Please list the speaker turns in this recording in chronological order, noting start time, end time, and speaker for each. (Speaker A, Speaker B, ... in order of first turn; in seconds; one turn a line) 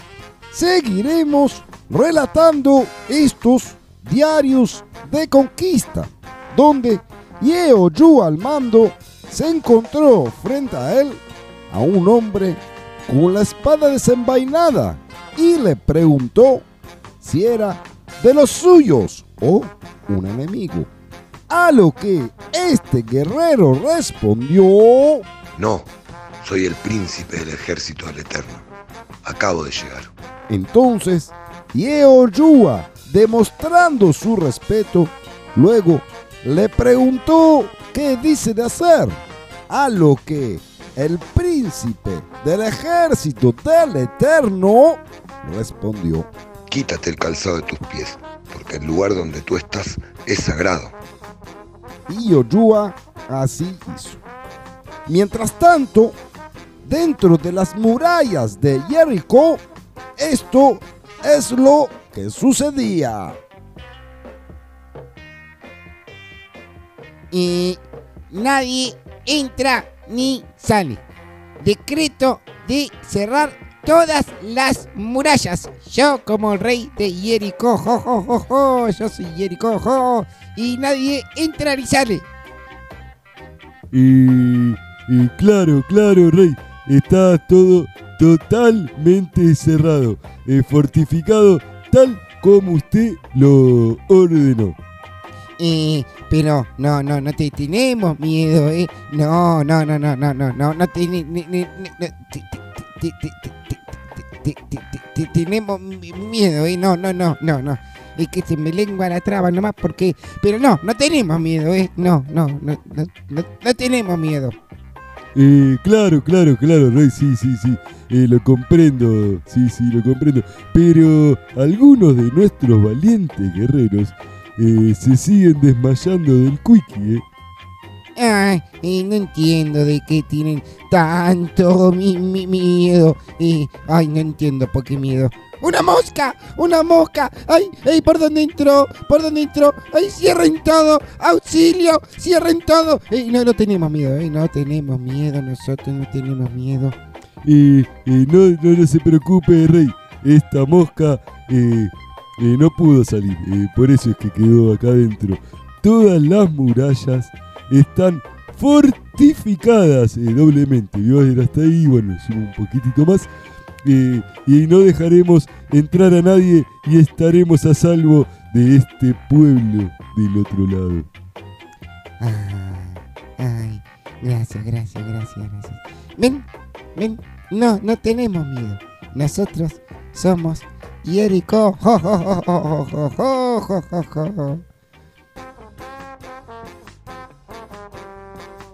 Speaker A: 0.5-16.6
Speaker A: 17.2-20.9
Speaker A: 21.5-25.2
Speaker B: 25.6-25.9
Speaker B: 26.4-28.7
Speaker B: 29.2-30.1
Speaker A: 30.5-46.3
Speaker B: 46.7-51.0
Speaker A: 52.1-54.2
Speaker A: 55.0-56.2
Speaker A: 56.8-59.6
Speaker A: 60.2-63.4
Speaker C: 67.3-71.0
Speaker C: 71.6-82.2
Speaker D: 83.9-94.8
Speaker C: 95.6-114.5
Speaker D: 115.3-127.2
Speaker C: 128.2-146.9
Speaker D: 147.4-163.3
Speaker D: 163.8-171.1
Speaker C: 172.2-184.6